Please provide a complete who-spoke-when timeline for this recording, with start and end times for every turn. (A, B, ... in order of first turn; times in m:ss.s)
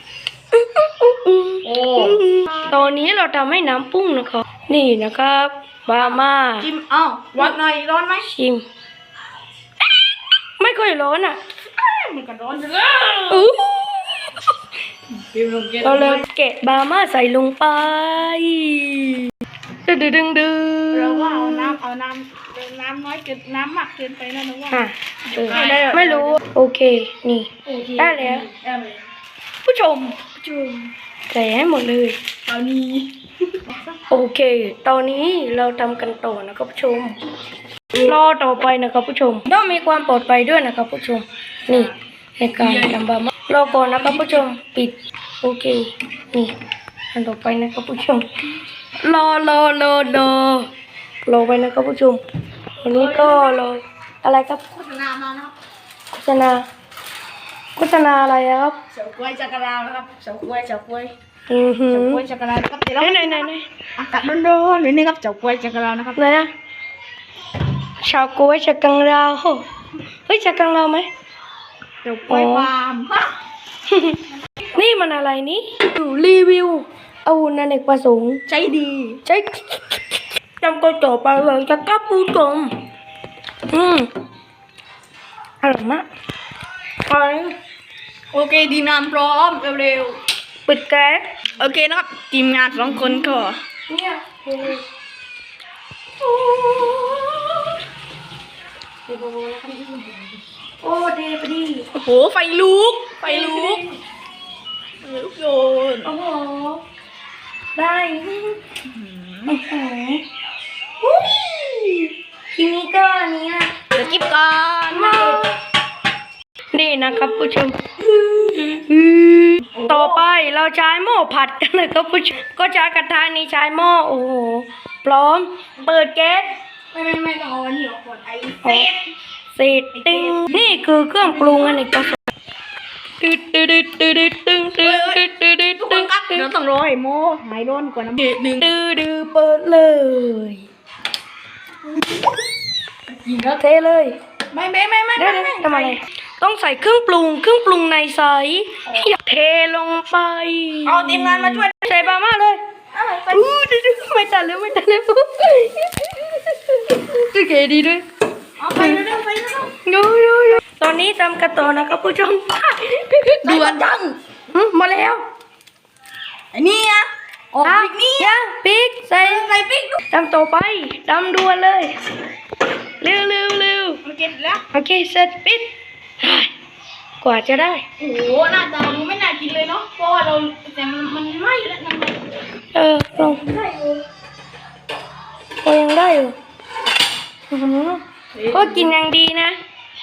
0:00.5-0:06.7 A
0:01.6-0:02.7 B
0:06.1-0:08.3 B
0:08.2-0:08.6 A
0:10.6-0:11.4 A
0:11.8-0:13.5 B
0:13.3-0:14.4 A
0:15.1-0:16.2 B
0:15.8-0:19.3 A
0:19.8-0:21.8 A
0:20.9-0:26.4 B
0:24.7-0:28.5 A
0:27.7-0:29.0 B
0:29.6-0:30.3 A
0:30.4-0:30.9 B
0:31.3-0:32.2 A
0:32.5-0:33.9 B
0:34.1-0:37.2 A
0:37.9-0:46.5 A
0:42.6-0:43.0 B
0:43.7-0:44.4 B
0:47.1-0:48.3 A
0:49.0-0:50.7 A
0:51.2-0:52.2 A
0:52.8-0:54.6 A
0:52.9-0:53.6 B
0:54.7-0:55.5 B
0:56.2-0:56.6 A
0:57.8-0:58.7 A
0:58.9-1:01.1 B
1:01.5-1:02.2 A
1:01.9-1:06.2 B
1:03.0-1:03.7 A
1:06.2-1:06.5 A
1:08.0-1:09.6 A
1:10.3-1:11.1 A
1:12.0-1:13.3 B
1:12.3-1:12.7 A
1:13.9-1:14.2 A
1:14.7-1:18.4 A
1:18.5-1:19.2 B
1:19.2-1:19.9 A
1:20.6-1:22.7 A
1:23.7-1:24.1 A
1:25.6-1:26.0 A
1:27.1-1:27.5 A
1:28.3-1:30.2 B
1:30.7-1:31.3 A
1:31.6-1:33.6 B
1:33.0-1:34.8 A
1:36.2-1:37.6 A
1:39.1-1:39.9 A
1:40.8-1:41.9 A
1:41.9-1:43.8 B
1:43.2-1:44.0 A
1:45.0-1:46.1 B
1:46.0-1:46.8 A
1:47.8-1:48.6 A
1:48.8-1:49.6 B
1:49.4-1:50.2 A
1:51.0-1:53.8 A
1:53.9-1:55.5 B
1:54.9-1:55.5 A
1:56.7-2:06.5 A
1:59.7-2:00.2 B
2:06.9-2:09.0 B
2:08.6-2:08.9 A
2:09.5-2:12.2 A
2:09.9-2:10.6 B
2:13.2-2:16.5 A
2:14.8-2:15.2 B
2:15.8-2:18.6 B
2:18.6-2:20.6 A
2:23.1-2:23.6 B
2:23.6-2:24.2 A
2:24.5-2:26.0 B
2:25.2-2:32.6 A
2:30.8-2:31.7 B
2:32.9-2:33.5 B
2:33.3-2:38.0 A
2:38.6-2:39.7 B
2:38.7-2:39.0 A
2:39.8-2:45.2 A
2:43.4-2:44.1 B
2:46.5-2:48.4 B
2:47.6-2:49.5 A
2:49.1-2:50.0 B
2:50.1-2:52.0 A
2:53.0-2:54.0 A
2:54.0-2:54.6 B
2:54.7-2:56.5 A
2:57.2-2:57.8 A
2:58.0-3:02.3 B
3:02.7-3:03.5 A
3:03.4-3:04.0 B
3:05.6-3:06.3 A
3:07.5-3:09.5 A
3:08.4-3:08.9 B